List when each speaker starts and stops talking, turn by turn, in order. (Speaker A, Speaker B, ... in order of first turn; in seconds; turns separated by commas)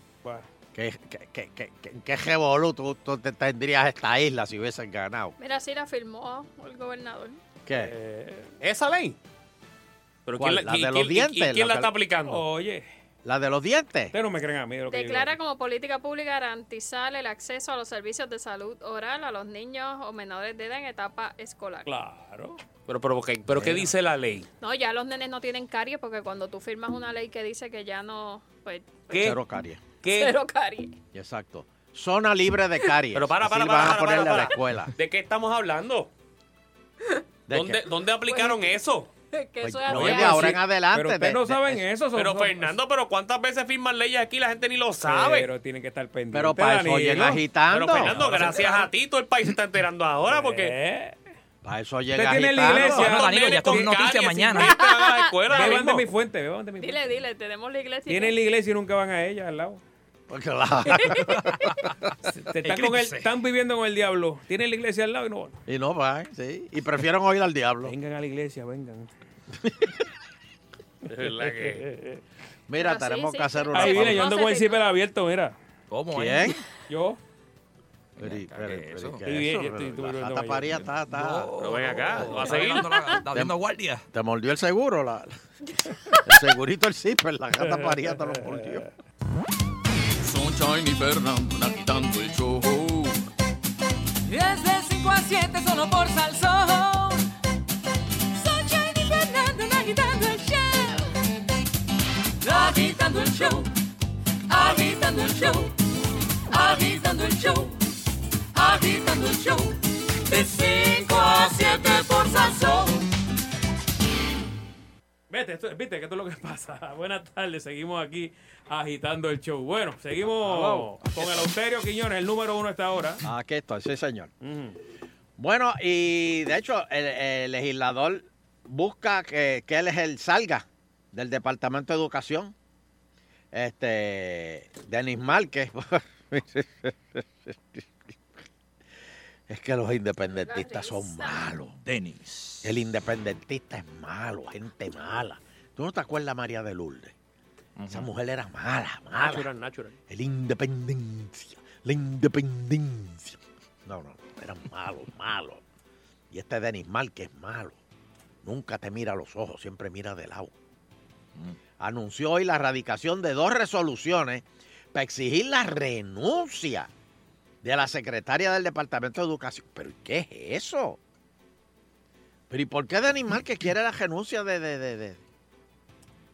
Speaker A: 0.7-5.3, Speaker B: 5.4-7.4, Speaker A: 7.7-7.9, Speaker C: 7.8-8.5, Speaker D: 8.6-9.2, Speaker D: 10.3-12.4, Speaker A: 10.4-11.9, Speaker C: 12.3-12.9, Speaker A: 13.2-14.1, Speaker C: 14.1-15.3, Speaker B: 14.9-21.9, Speaker C: 21.9-22.6, Speaker D: 22.9-24.5, Speaker A: 23.5-23.9, Speaker B: 24.6-29.4, Speaker A: 29.1-29.8, Speaker D: 30.0-30.4, Speaker B: 30.1-31.0, Speaker A: 31.1-34.9, Speaker D: 33.1-36.1, Speaker A: 37.5-37.8, Speaker D: 37.5-39.1, Speaker B: 38.3-38.8, Speaker B: 39.3-40.6, Speaker A: 39.6-41.8, Speaker C: 40.0-42.8, Speaker D: 42.1-45.5, Speaker C: 45.0-47.4, Speaker A: 46.3-48.2, Speaker D: 47.7-50.7, Speaker C: 48.0-48.9, Speaker C: 50.3-51.2, Speaker A: 51.6-53.1, Speaker C: 52.1-53.9, Speaker E: 52.8-54.8, Speaker D: 52.8-56.0, Speaker B: 54.5-55.4, Speaker C: 55.5-57.1, Speaker B: 56.8-58.4, Speaker C: 58.1-59.8, Speaker A: 60.3-61.5, Speaker B: 60.9-61.3, Speaker E: 61.4-62.0, Speaker C: 62.3-65.6, Speaker E: 62.6-63.3, Speaker A: 65.7-67.9, Speaker C: 67.8-69.1, Speaker A: 69.6-69.9, Speaker D: 71.1-71.8, Speaker C: 71.2-72.2, Speaker A: 72.7-74.3, Speaker B: 72.8-74.8, Speaker C: 73.7-75.5, Speaker E: 75.9-76.6, Speaker A: 76.1-76.6, Speaker C: 76.9-77.2, Speaker E: 78.2-79.2, Speaker A: 78.2-81.5, Speaker C: 79.3-80.8, Speaker E: 81.1-84.0, Speaker D: 81.6-83.0, Speaker A: 82.1-82.5, Speaker A: 84.1-85.3, Speaker A: 86.2-88.8, Speaker C: 87.6-88.8, Speaker F: 90.2-93.2, Speaker G: 94.3-97.3, Speaker G: 98.3-101.1, Speaker G: 102.4-103.7, Speaker G: 104.5-105.7, Speaker G: 106.5-107.8, Speaker G: 108.5-113.1, Speaker C: 115.3-123.2, Speaker A: 120.4-121.4, Speaker A: 123.2-124.3, Speaker C: 124.4-124.8, Speaker A: 125.4-132.5, Speaker A: 133.5-138.1, Speaker A: 139.5-141.8, Speaker B: 140.3-141.4, Speaker E: 141.8-142.7, Speaker A: 142.6-147.1, Speaker E: 147.8-148.1, Speaker A: 147.9-149.5, Speaker D: 149.1-150.0, Speaker A: 150.1-155.6, Speaker A: 156.3-157.8, Speaker A: 158.4-160.5, Speaker A: 161.8-166.9, Speaker A: 167.6-171.0, Speaker A: 172.5-175.2